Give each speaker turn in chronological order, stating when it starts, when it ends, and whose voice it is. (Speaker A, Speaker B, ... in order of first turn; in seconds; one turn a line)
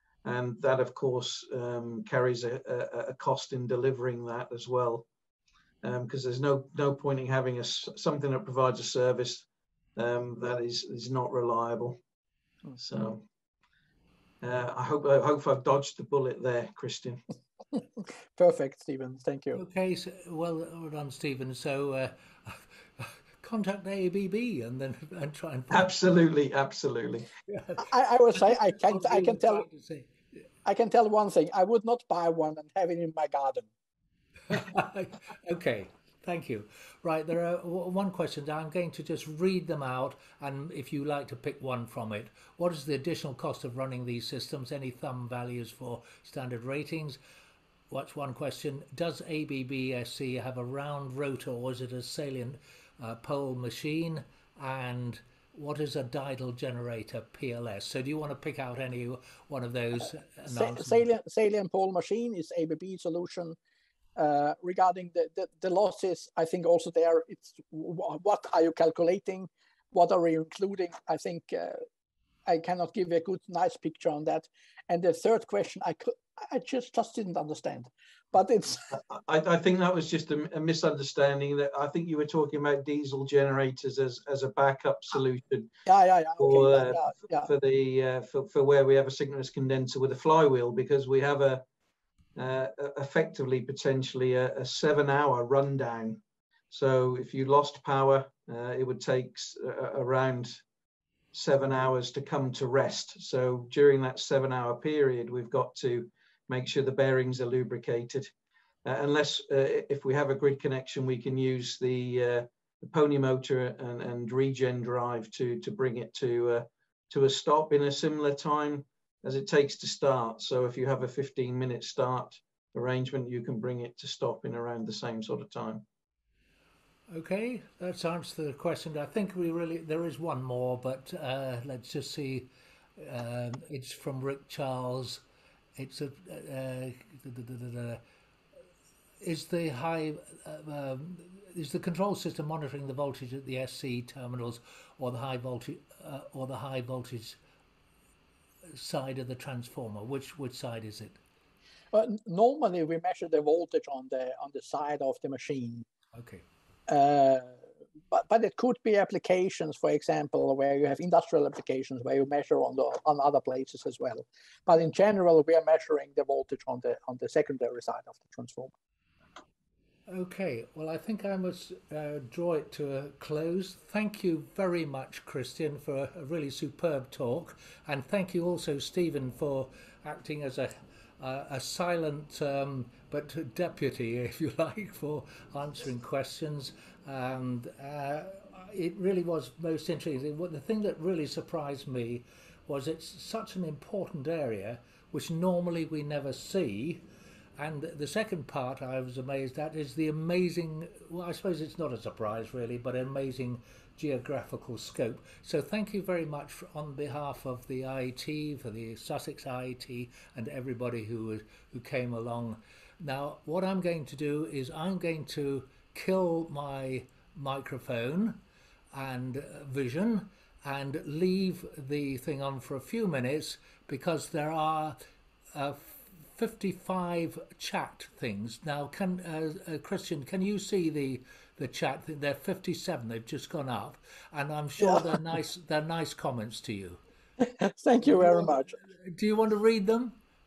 Speaker A: 0.2-5.1
Speaker A: 5.8-12.0
Speaker A: 12.8-13.2
Speaker A: 14.4-17.2
Speaker B: 18.3-19.6
Speaker C: 19.6-25.9
Speaker A: 25.7-27.3
Speaker C: 27.5-30.2
Speaker B: 27.8-29.6
Speaker B: 30.6-33.7
Speaker C: 34.5-47.2
Speaker C: 47.9-61.0
Speaker B: 60.5-63.6
Speaker B: 64.2-71.8
Speaker B: 72.5-79.0
Speaker A: 78.9-85.7
Speaker B: 85.8-87.5
Speaker A: 86.4-91.7
Speaker A: 92.3-100.6
Speaker A: 101.3-108.3
Speaker A: 108.8-125.8
Speaker C: 127.1-135.2
Speaker C: 135.8-138.0
Speaker C: 139.2-147.4
Speaker C: 148.7-151.2
Speaker B: 151.9-155.8
Speaker C: 156.1-156.4
Speaker B: 156.9-157.6
Speaker B: 158.1-168.7
Speaker C: 170.1-197.0
Speaker C: 197.6-225.0
Speaker C: 225.5-237.0
Speaker B: 234.8-235.2
Speaker B: 237.4-238.7
Speaker C: 238.0-240.2